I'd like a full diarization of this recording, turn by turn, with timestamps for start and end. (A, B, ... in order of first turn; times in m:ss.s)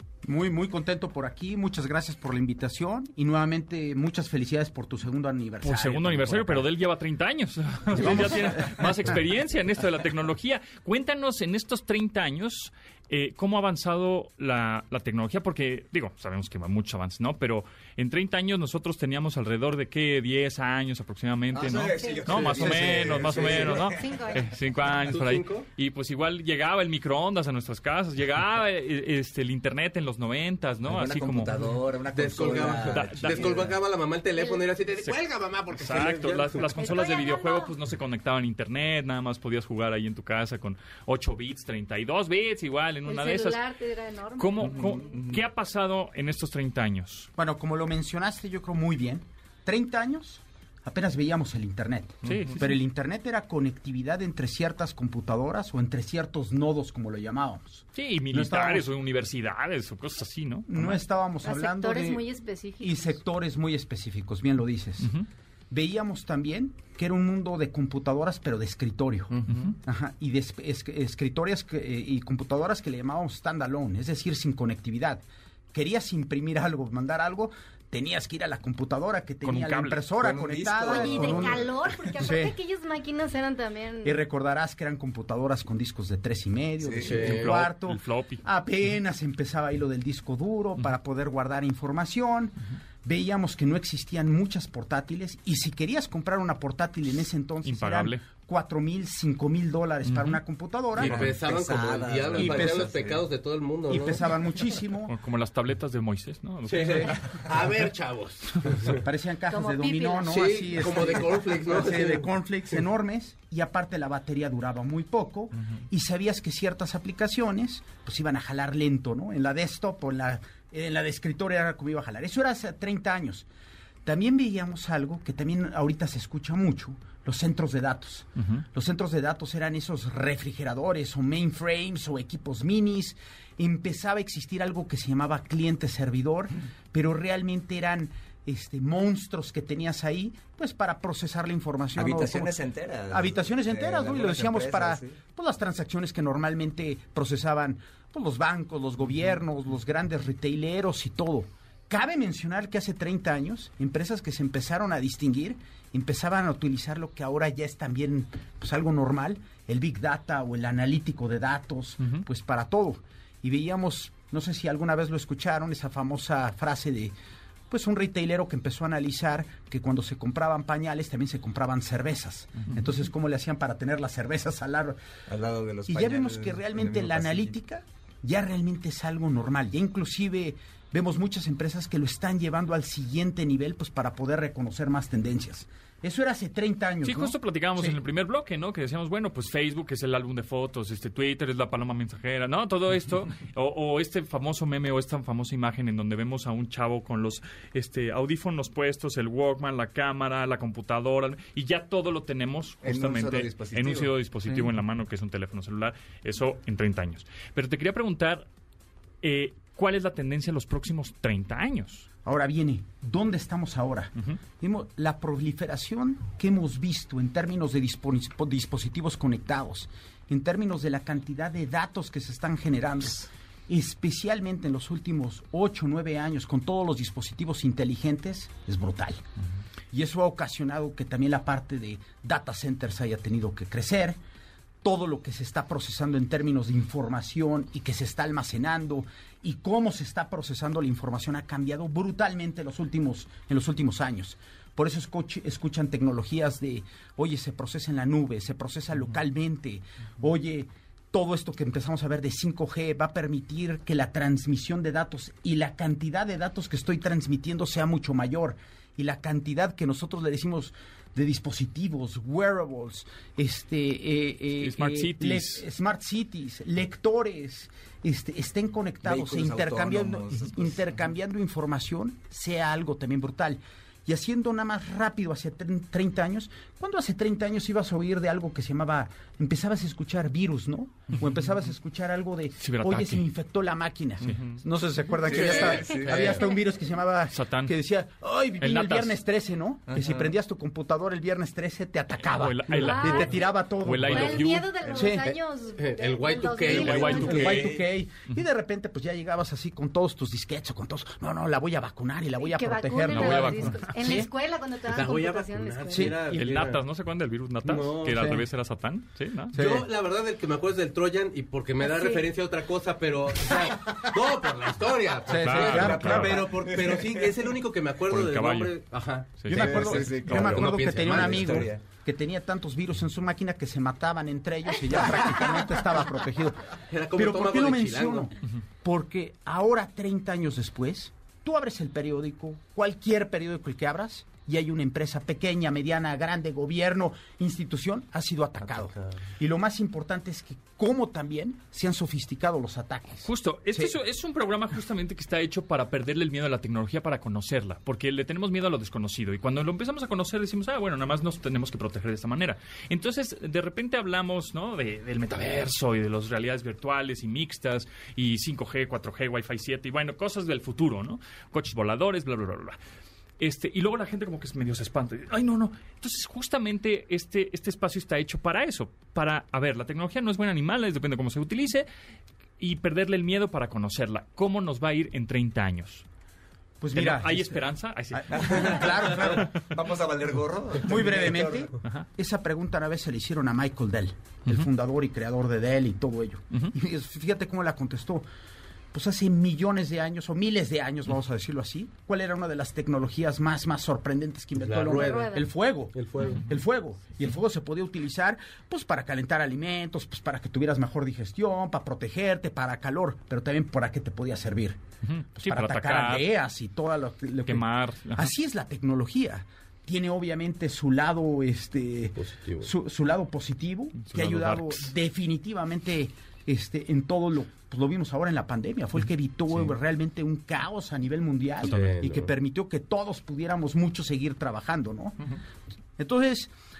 0:00.2-0:06.7 A
0:05.6-0:31.5 B
0:07.9-0:09.1 A
0:21.5-0:24.1 C
0:22.0-0:22.5 D
0:23.3-0:23.7 E
0:23.8-0:24.4 D
0:25.0-0:25.7 E
0:30.8-0:33.7 C
0:32.1-0:36.7 E
0:32.8-0:33.6 B
0:35.7-0:43.6 B
0:36.8-0:37.7 D
0:43.0-0:45.1 D
0:44.4-0:47.3 B
0:47.4-0:58.9 A
0:52.2-0:52.8 B
0:57.9-1:01.0 B
1:00.7-1:02.2 A
1:01.4-1:03.1 D
1:02.8-1:05.1 A
1:05.7-1:15.2 A
1:09.5-1:09.7 B
1:15.7-1:21.6 A
1:19.4-1:20.0 B
1:20.2-1:21.7 C
1:20.8-1:24.2 D
1:22.2-1:22.5 A
1:24.0-1:41.3 A
1:26.8-1:27.5 C
1:27.0-1:27.5 E
1:27.2-1:28.4 B
1:37.6-1:38.2 B
1:40.0-1:40.4 B
1:41.0-1:44.2 E
1:41.0-1:41.3 B
1:41.0-1:43.2 C
1:42.4-1:42.9 A
1:43.9-1:45.1 A
1:45.1-1:47.4 B
1:46.6-1:49.0 E
1:48.9-2:03.5 A
1:49.5-1:50.4 D
1:50.3-1:52.3 E
2:04.0-2:22.5 A
2:08.4-2:08.6 B
2:21.9-2:25.2 C
2:23.1-2:47.1 A
2:47.7-2:55.0 A
2:55.3-2:57.6 C
2:55.9-3:08.0 A
3:07.0-3:28.4 B
3:22.8-3:24.1 C
3:29.2-3:32.1 B
3:32.2-3:49.2 A
3:49.9-3:54.2 A
3:54.8-4:55.4 A
4:24.6-4:25.6 B
4:29.0-4:31.0 C
4:42.6-4:43.2 B
4:44.2-4:44.6 B
4:45.2-4:46.4 C
4:45.3-4:46.3 E
4:45.3-4:46.6 D
4:47.3-4:47.7 B
4:48.6-4:49.2 B
4:49.9-4:50.3 C
4:52.2-4:55.0 B
4:52.7-4:53.5 D
4:54.0-4:57.6 D
4:55.8-4:57.8 E
4:56.6-4:58.4 B
4:56.8-5:04.3 A
5:02.4-5:06.1 D
5:03.1-5:03.9 B
5:04.9-5:06.8 E
5:05.9-5:06.3 A
5:06.3-5:09.5 B
5:07.6-5:08.4 E
5:08.1-5:08.4 A
5:09.5-5:21.7 E
5:09.5-5:09.9 A
5:11.8-5:12.2 D
5:15.3-5:16.5 A
5:15.3-5:16.5 B
5:15.6-5:17.4 C
5:18.1-5:18.7 B
5:19.4-5:20.6 B
5:19.5-5:28.3 A
5:19.5-5:21.8 C
5:26.9-5:28.3 E
5:28.8-5:43.9 A
5:43.2-6:02.8 B
6:03.4-6:11.9 B
6:12.6-6:16.0 B
6:16.8-6:19.5 A
6:16.9-6:19.5 B
6:18.4-6:21.7 C
6:20.8-6:28.2 A
6:28.9-6:44.8 A
6:34.5-6:35.4 E
6:34.9-6:35.5 D
6:35.9-6:36.4 E
6:45.0-6:46.3 B
6:45.4-7:05.2 A
6:47.4-6:48.3 B
6:52.2-6:52.7 E
6:54.0-6:54.9 B
7:01.6-7:02.0 B
7:01.6-7:02.3 E
7:06.0-7:06.5 A